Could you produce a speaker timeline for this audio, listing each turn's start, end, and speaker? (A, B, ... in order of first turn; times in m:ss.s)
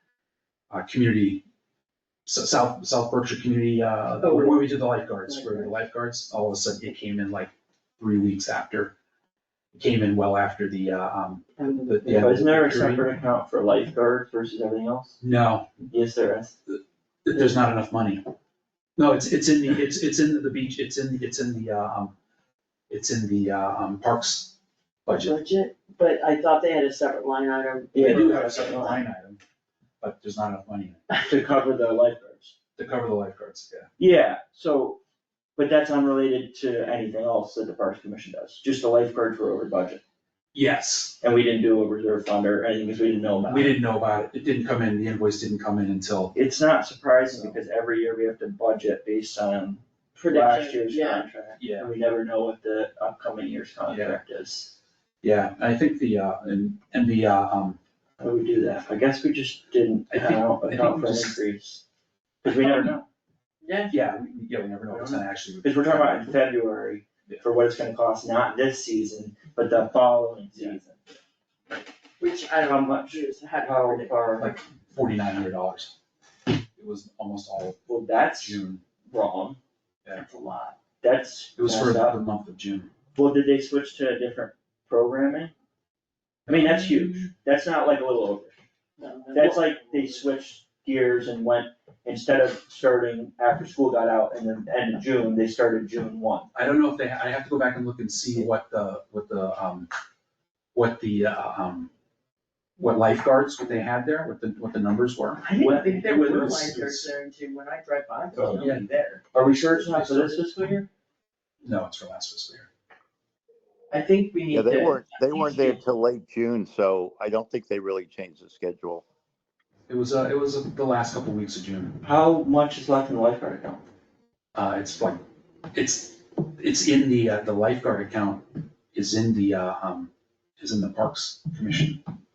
0:00.7-0:01.4 A
0:02.3-0:09.0 A
0:04.2-0:05.8 B
0:09.7-0:13.1 A
0:11.6-0:12.4 B
0:12.2-0:15.2 C
0:15.2-0:15.7 A
0:15.9-0:16.6 C
0:16.7-0:18.2 A
0:19.0-0:22.2 A
0:22.9-0:24.6 A
0:25.1-0:25.4 A
0:25.2-0:28.9 B
0:27.9-0:29.0 C
0:28.0-0:29.4 A
0:30.0-0:31.0 A
0:31.3-0:32.6 C
0:32.8-0:33.9 A
0:34.0-0:35.0 C
0:35.6-0:40.0 C
0:40.5-0:41.2 A
0:41.2-0:43.8 C
0:43.5-0:46.3 A
0:46.3-0:54.7 C
0:47.3-0:47.6 A
0:50.2-0:51.2 B
0:51.6-0:51.9 A
0:53.9-0:54.2 A
0:55.2-0:57.8 A
0:58.2-1:01.8 C
1:00.1-1:01.4 A
1:02.4-1:03.0 C
1:02.5-1:02.9 A
1:03.6-1:03.9 B
1:03.9-1:06.3 A
1:04.9-1:11.2 C
1:12.2-1:14.4 B
1:12.6-1:14.5 C
1:14.4-1:15.9 A
1:16.8-1:18.8 A
1:17.9-1:19.6 C
1:20.2-1:20.8 B
1:21.0-1:22.2 C
1:21.6-1:22.9 A
1:23.2-1:25.5 C
1:26.5-1:28.6 C
1:26.5-1:26.9 A
1:29.0-1:30.3 B
1:29.3-1:36.5 C
1:36.5-1:39.9 A
1:40.8-1:41.9 A
1:42.8-1:45.5 A
1:45.4-1:49.2 B
1:45.6-1:46.6 C
1:46.0-1:47.1 A
1:48.4-1:48.7 C
1:48.4-1:48.9 A
1:49.3-1:50.9 C
1:49.4-1:50.4 A
1:51.6-1:52.7 A
1:53.9-1:55.8 B
1:54.5-1:59.0 D
1:59.9-2:02.0 A
2:02.0-2:03.8 C
2:04.6-2:05.2 A
2:05.7-2:12.0 A